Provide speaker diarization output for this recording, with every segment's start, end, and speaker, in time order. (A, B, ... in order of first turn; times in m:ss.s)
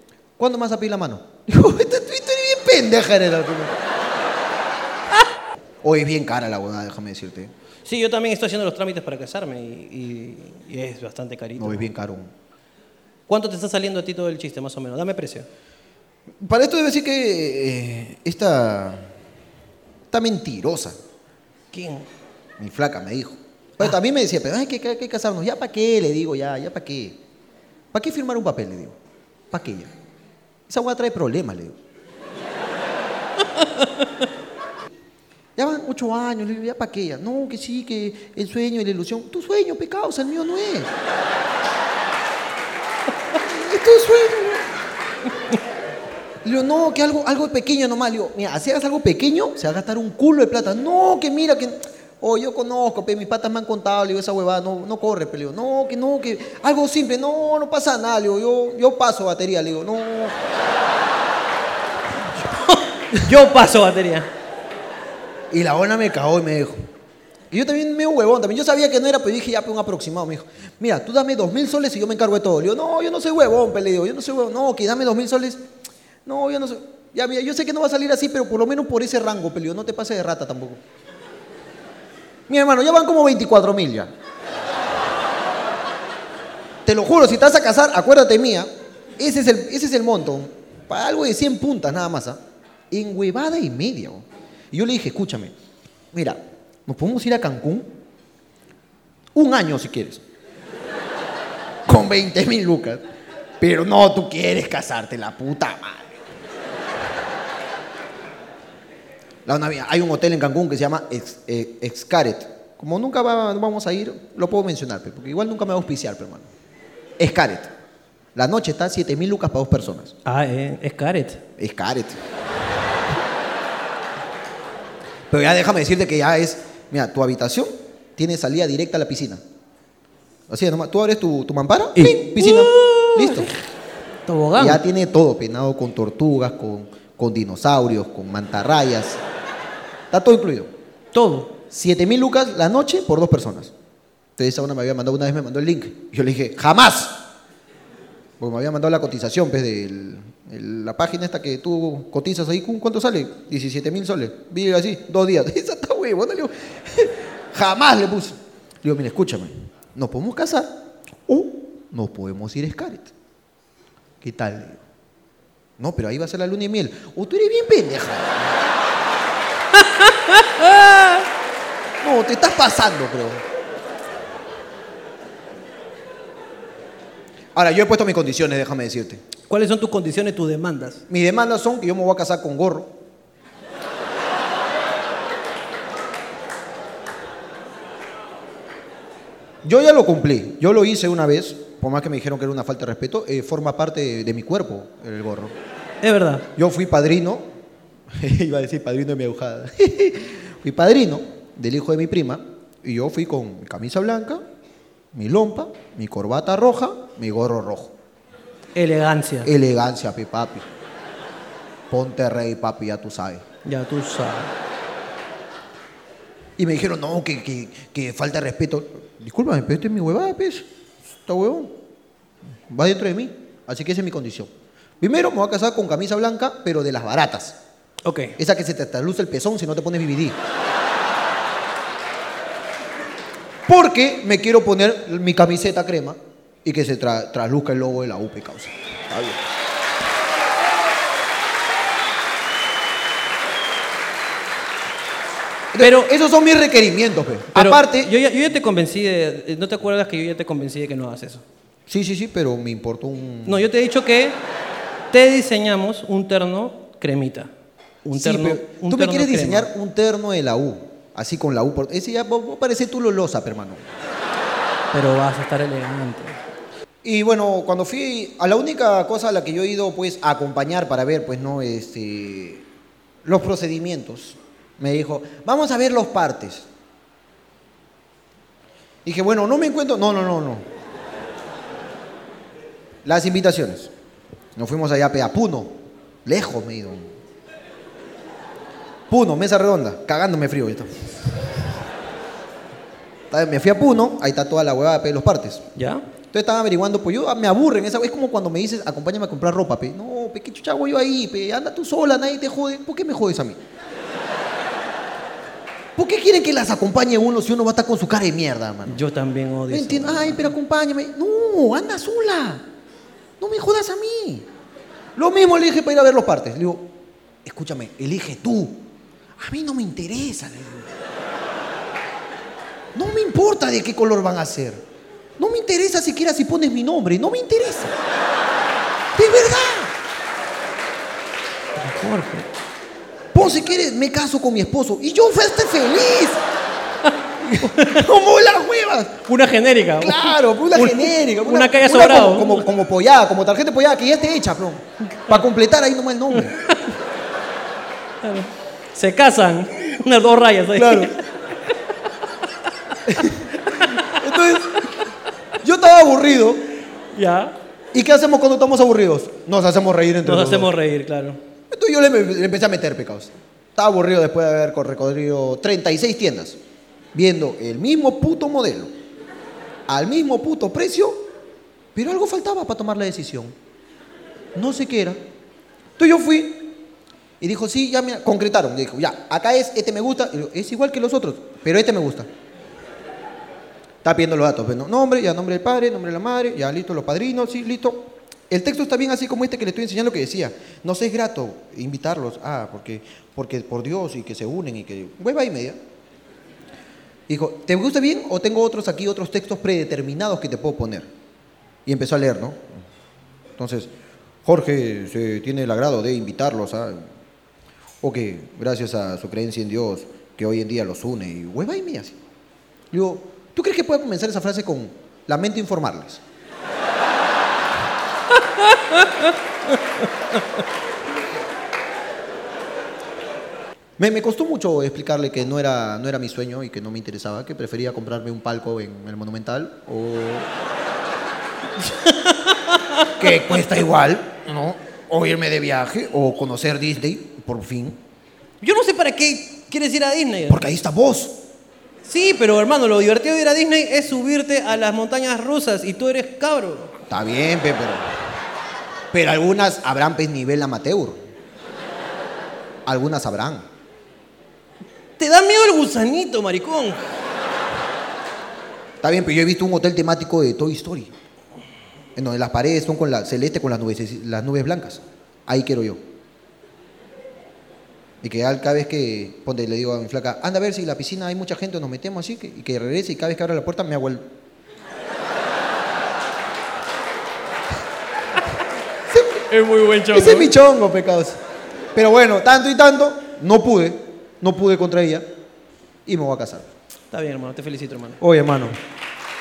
0:00.4-0:03.8 A
0:05.8-0:07.5 A
0:07.8-0:11.9 B
0:11.6-0:12.3 A
0:13.3-0:15.5 B
0:16.4-0:19.1 A
0:20.1-0:21.0 A
0:21.7-0:22.1 B
0:22.6-0:27.2 A
0:27.9-0:29.0 A
0:29.5-0:29.9 A
0:30.7-0:31.8 A
0:33.6-0:34.1 B
0:35.6-0:40.9 A
0:43.4-0:44.7 A
0:46.4-1:00.4 A
1:02.3-1:04.3 B
1:05.5-1:06.9 A
1:07.5-1:15.6 A
1:16.3-1:20.8 A
1:22.5-1:24.1 A
1:26.8-1:32.4 A
1:32.9-1:35.5 A
1:36.1-1:37.9 A
1:39.3-1:40.2 A
1:41.9-1:43.0 A
1:43.6-1:46.2 A
1:49.5-1:56.5 A
1:57.2-1:57.7 A
1:58.4-2:00.1 A
2:00.3-2:01.4 B
2:01.6-2:02.2 A
2:05.3-2:09.4 A
2:10.5-2:13.5 A
2:12.0-2:13.5 B
2:14.3-2:14.8 B
2:14.6-2:19.2 A
2:20.1-2:20.7 A
2:21.1-2:21.6 B
2:21.7-2:23.7 A
2:24.4-2:27.2 A
2:28.4-2:43.1 A
2:44.2-2:44.8 A
2:45.8-2:48.6 A
2:49.7-2:51.3 B
2:52.0-2:53.4 A
2:57.6-2:59.2 A
2:59.5-3:01.0 B
3:01.1-3:03.0 A
3:09.6-3:15.6 A
3:16.0-3:16.5 B
3:16.6-3:17.4 A
3:18.1-3:24.4 A
3:25.1-3:27.9 A
3:28.8-3:29.5 B
3:29.4-3:30.7 A
3:31.9-3:33.4 A
3:33.6-3:34.5 B
3:36.6-3:40.6 A
3:41.2-3:41.8 A
3:42.7-3:47.6 A
3:48.0-3:48.4 B
3:48.4-3:50.4 A
3:53.7-3:59.4 A
4:05.7-4:08.1 A
4:05.8-4:06.1 B
4:07.5-4:11.4 B
4:11.9-4:13.7 A
4:13.5-4:14.4 B
4:15.1-4:17.5 B
4:18.0-4:19.7 B
4:18.1-4:23.8 A
4:24.9-4:26.4 B
4:27.0-4:32.6 A
4:33.2-4:36.7 A
4:39.0-4:40.6 A
4:43.0-4:43.9 A
4:44.6-4:47.1 A
4:49.1-4:51.1 A
4:53.3-4:55.6 A
4:55.8-4:56.0 B
4:56.3-5:03.6 A
5:06.0-5:09.0 A
5:08.9-5:10.5 B
5:09.7-5:12.6 A
5:13.4-5:14.5 A
5:15.2-5:16.9 A
5:17.4-5:18.8 A
5:19.4-5:20.9 A
5:23.0-5:24.8 A
5:25.4-5:28.0 A
5:29.2-5:29.9 A
5:31.8-5:32.5 B
5:33.3-5:36.4 A
5:37.4-5:39.2 A
5:37.6-5:38.1 B
5:39.3-5:42.7 B
5:40.0-5:46.6 A
5:46.3-5:46.9 B
5:48.2-5:51.2 B
5:50.8-5:51.1 A
5:53.1-5:54.8 A
5:53.7-5:54.1 B
5:55.6-5:56.6 A
5:57.1-5:57.6 B
5:57.9-6:00.7 A
6:00.2-6:01.4 B
6:01.7-6:06.6 A
6:07.1-6:08.9 A
6:09.9-6:11.3 A
6:12.0-6:13.6 A
6:14.6-6:15.2 A
6:16.0-6:16.8 A
6:17.4-6:22.3 A
6:24.0-6:35.8 A
6:37.3-6:41.1 A
6:41.9-6:42.8 A
6:43.6-6:43.9 A
6:44.4-6:47.1 A
6:48.0-6:52.2 A
6:52.9-6:56.2 A
6:58.3-7:00.4 B
7:04.0-7:10.5 A
7:11.9-7:13.2 B
7:13.1-7:18.0 A
7:18.6-7:20.6 B
7:20.5-7:21.4 A
7:22.0-7:26.9 B
7:27.1-7:28.0 A
7:29.1-7:31.2 A
7:32.9-7:33.6 A
7:35.2-7:37.0 B
7:39.0-7:41.1 A
7:42.2-7:46.0 A
7:48.2-7:54.3 A
7:59.1-7:59.4 A
7:59.5-8:00.5 B
8:00.1-8:01.4 A
8:02.0-8:05.3 A
8:06.1-8:06.7 A
8:07.1-8:08.2 B
8:08.2-8:08.8 A